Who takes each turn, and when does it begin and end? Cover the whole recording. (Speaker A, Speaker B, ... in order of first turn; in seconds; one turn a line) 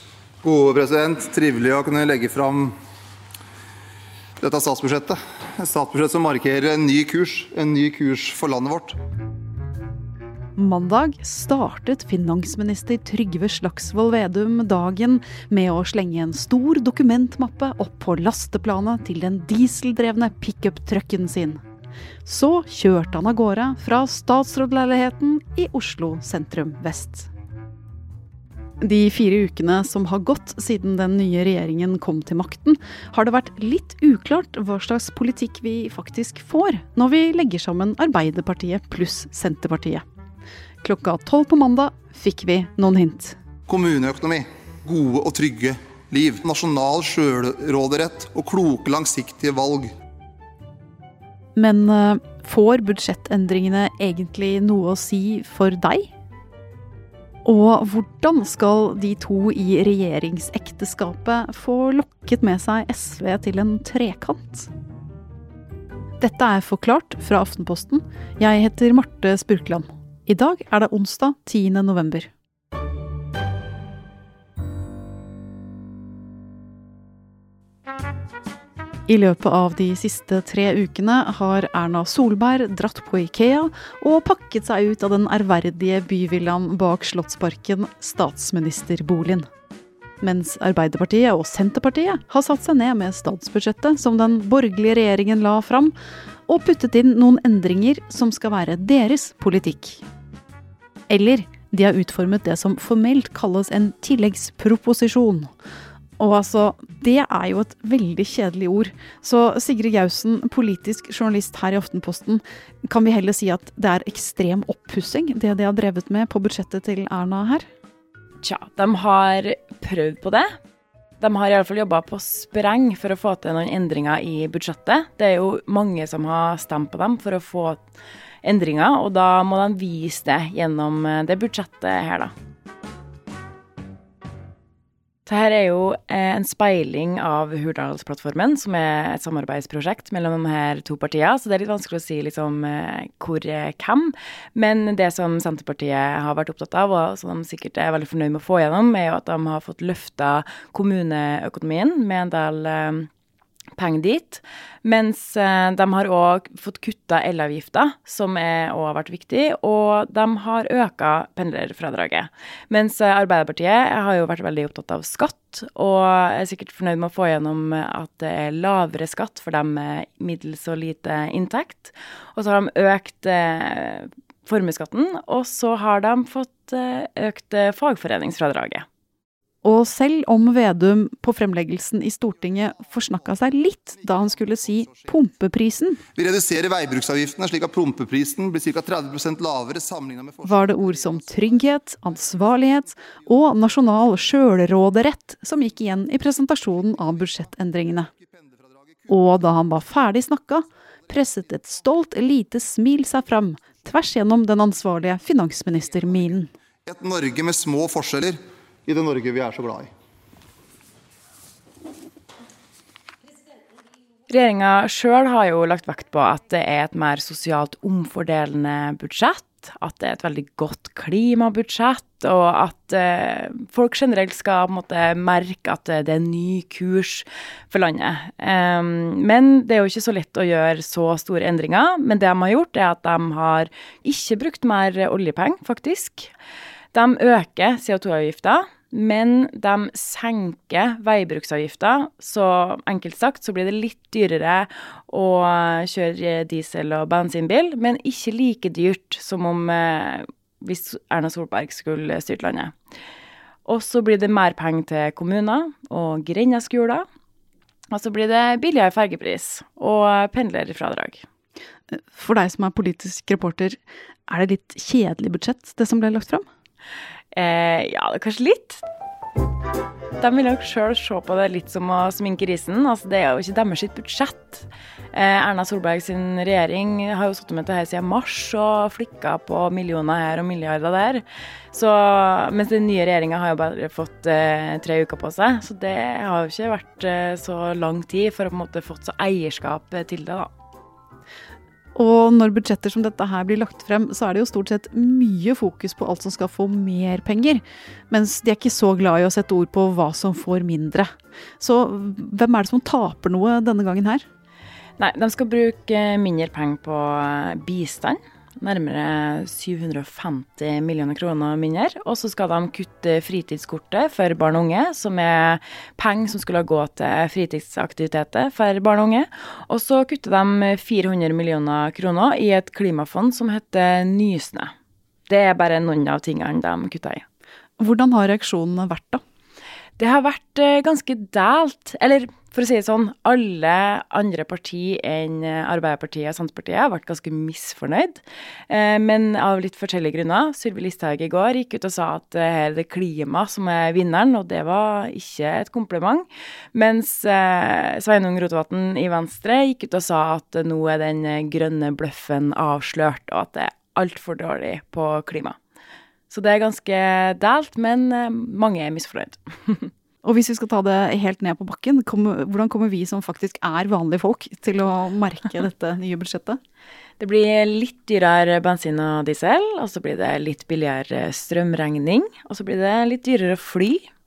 Speaker A: 0.4-2.7
Speaker A: 4.4-9.0
Speaker B: 10.6-21.6
Speaker B: 22.2-27.3
Speaker B: 28.8-40.0
Speaker B: 40.8-43.4
Speaker A: 43.7-49.9
Speaker B: 51.6-56.1
Speaker B: 57.5-64.7
Speaker B: 66.2-72.3
Speaker B: 79.1-89.5
Speaker B: 90.2-96.0
Speaker B: 96.5-100.0
Speaker B: 101.1-105.5
Speaker B: 106.2-117.7
Speaker C: 118.4-120.5
Speaker C: 121.2-127.8
Speaker C: 128.4-132.3
Speaker C: 135.3-153.1
Speaker C: 153.8-178.8
Speaker B: 179.6-186.0
Speaker A: 186.2-190.7
Speaker B: 190.4-198.1
Speaker B: 199.1-206.5
Speaker A: 206.9-209.9
Speaker C: 214.3-236.3
Speaker C: 236.9-252.7
Speaker C: 253.7-257.0
Speaker C: 257.9-261.2
Speaker B: 261.9-266.4
Speaker C: 267.3-268.8
Speaker C: 270.2-290.5
Speaker B: 291.9-304.2
Speaker C: 305.0-324.7
Speaker C: 325.3-327.2
Speaker B: 327.8-329.2
Speaker C: 330.0-355.6
Speaker C: 356.3-359.9
Speaker B: 360.2-366.6
Speaker C: 367.2-374.1